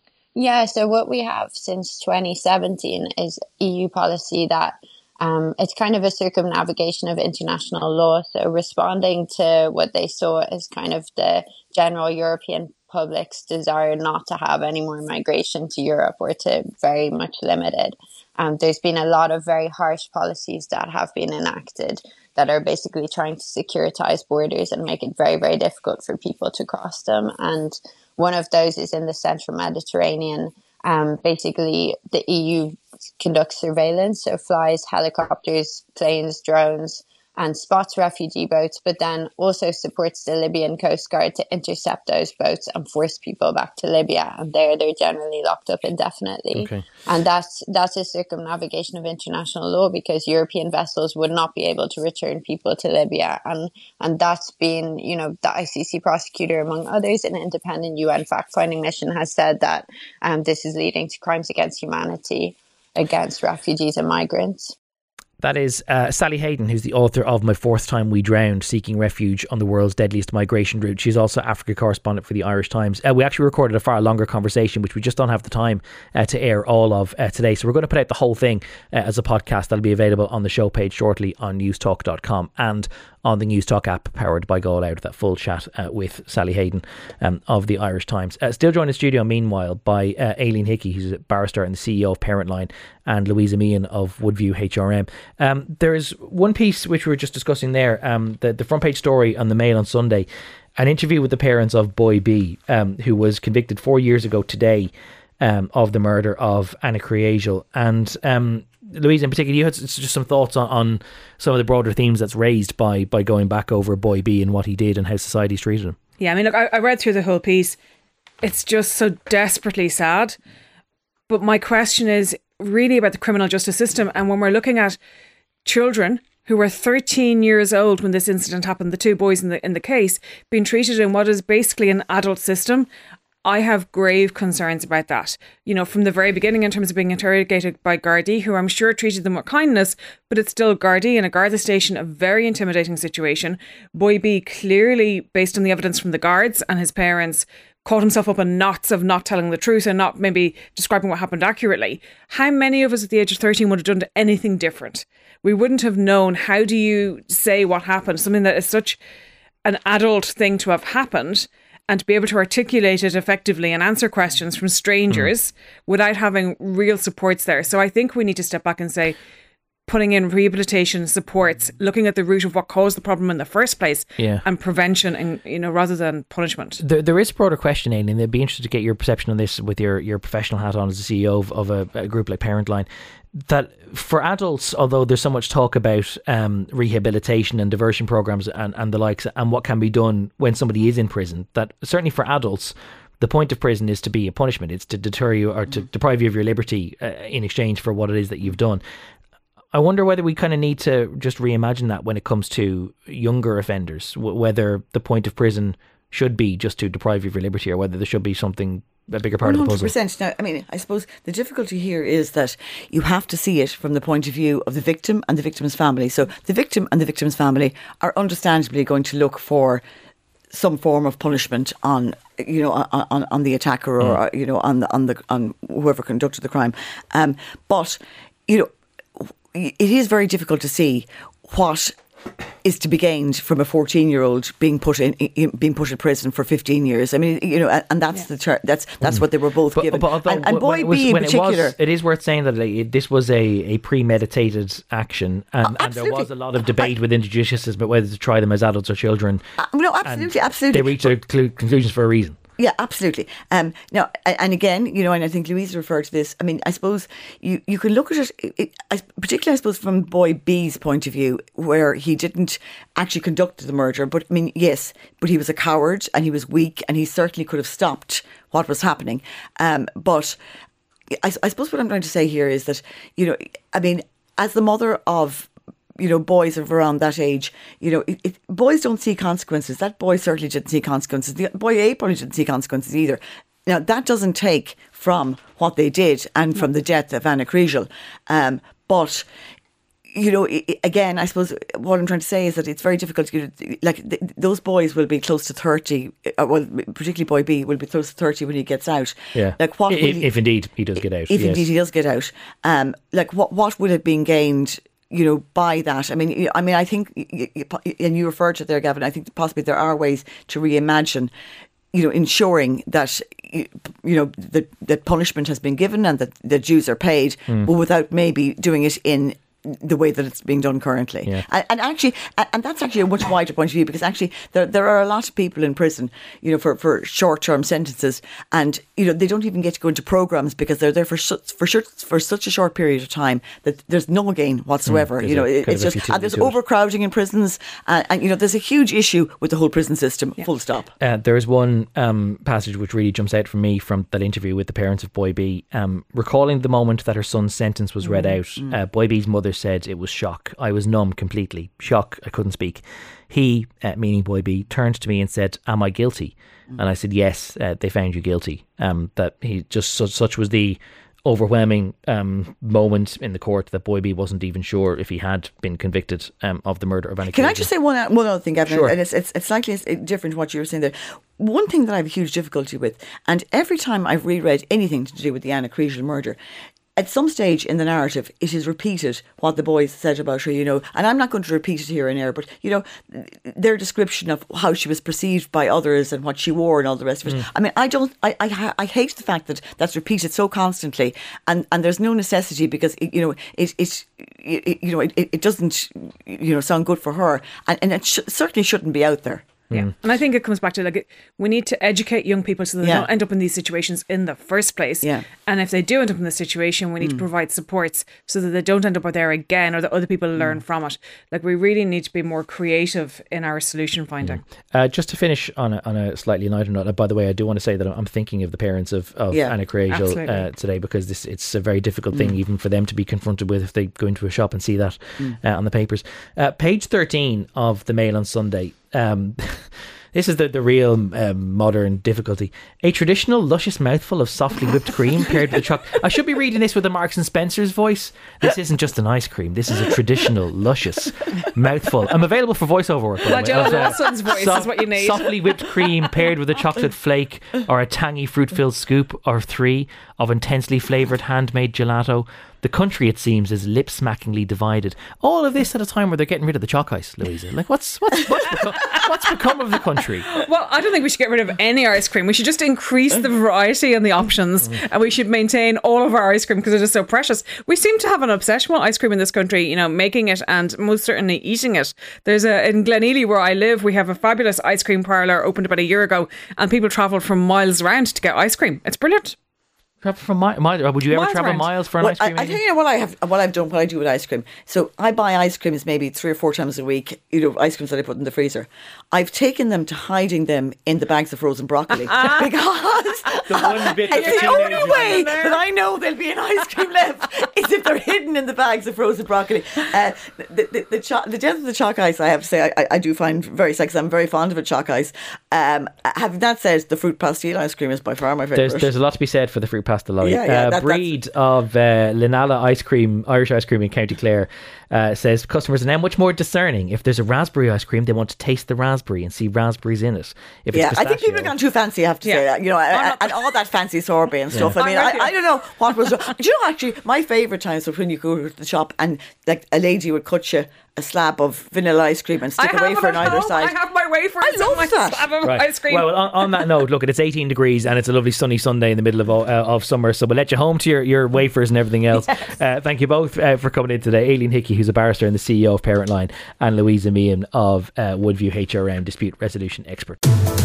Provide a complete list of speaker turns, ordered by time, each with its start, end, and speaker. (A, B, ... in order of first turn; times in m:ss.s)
0:00.4-1:04.8 A
0:46.6-0:46.8 B
1:05.4-1:40.3 B
1:40.8-1:56.0 B
1:56.2-1:57.8 C
1:58.4-2:00.4 C
2:01.3-2:05.0 C
2:05.6-2:12.9 C
2:13.4-2:39.0 C
2:39.6-2:49.2 C
2:49.9-2:56.8 C
2:56.8-3:18.8 B
3:19.7-3:29.9 B
3:29.4-3:39.8 D
3:40.5-3:52.0 D
3:52.6-4:01.8 D
3:59.8-4:09.4 B
4:05.6-4:06.9 D
4:09.6-4:11.1 D
4:10.0-4:12.4 B
4:12.6-4:30.4 D
4:31.1-4:49.3 D
4:50.1-5:00.3 D
4:59.4-5:01.6 B
5:01.3-5:11.3 D
5:11.9-5:40.9 D
5:34.9-5:36.6 B
5:41.0-6:07.7 B
6:07.3-6:16.4 D
6:08.7-6:08.9 B
6:17.0-6:39.5 D
6:39.7-6:54.4 C
6:54.2-7:40.4 B
6:59.9-7:00.4 C
7:23.3-7:25.7 C
7:40.3-7:59.4 C
8:00.0-8:02.6 B
8:01.1-8:01.7 C
8:02.0-8:28.9 D
8:13.4-8:15.3 B
8:13.6-8:15.6 C
8:28.6-8:41.5 B
8:30.2-8:31.1 D
8:40.7-8:53.8 D
8:42.2-8:43.6 C
8:44.5-8:44.8 B
8:44.8-8:45.4 C
8:52.6-8:56.6 C
8:54.4-8:55.3 D
8:55.4-9:10.2 B